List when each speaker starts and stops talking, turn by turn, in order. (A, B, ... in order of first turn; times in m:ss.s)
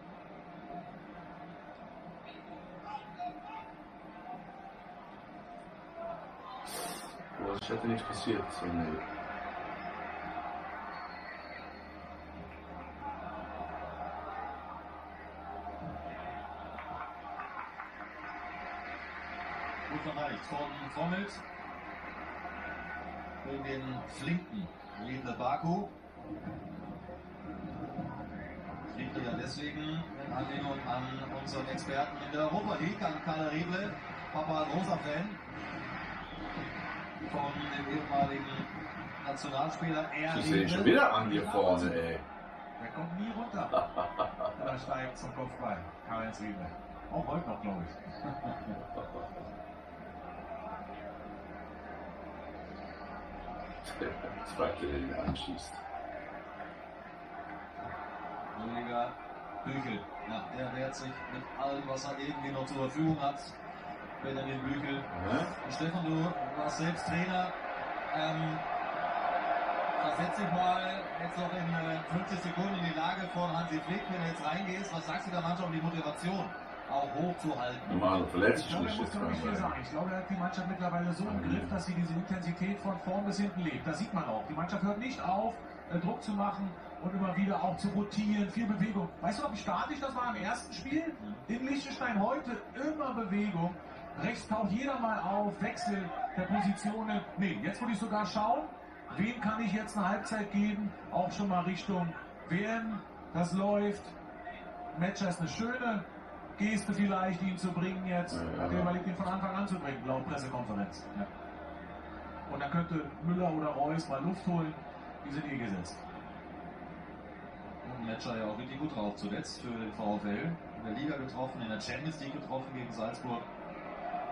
0:07.3-0:09.0 A
0:19.9-0:21.4 B
0:23.4-0:25.9 B
0:28.9-0:35.4 B
0:37.3-0:38.7 B
0:39.2-0:40.9 B
0:40.3-0:42.2 A
0:41.2-0:41.9 C
0:42.8-0:43.8 C
0:43.9-0:44.4 A
0:44.5-0:47.9 C
0:48.9-0:49.3 A
0:53.8-0:55.8 A
0:58.5-1:03.5 B
1:04.2-1:07.5 B
1:05.1-1:05.5 A
1:08.1-1:08.6 B
1:10.0-1:18.2 B
1:17.9-1:19.7 A
1:18.5-1:44.1 C
1:21.2-1:21.8 A
1:44.9-1:46.0 C
1:46.6-1:51.3 C
1:48.3-1:49.0 A
1:52.5-1:56.0 C
1:57.8-2:03.4 B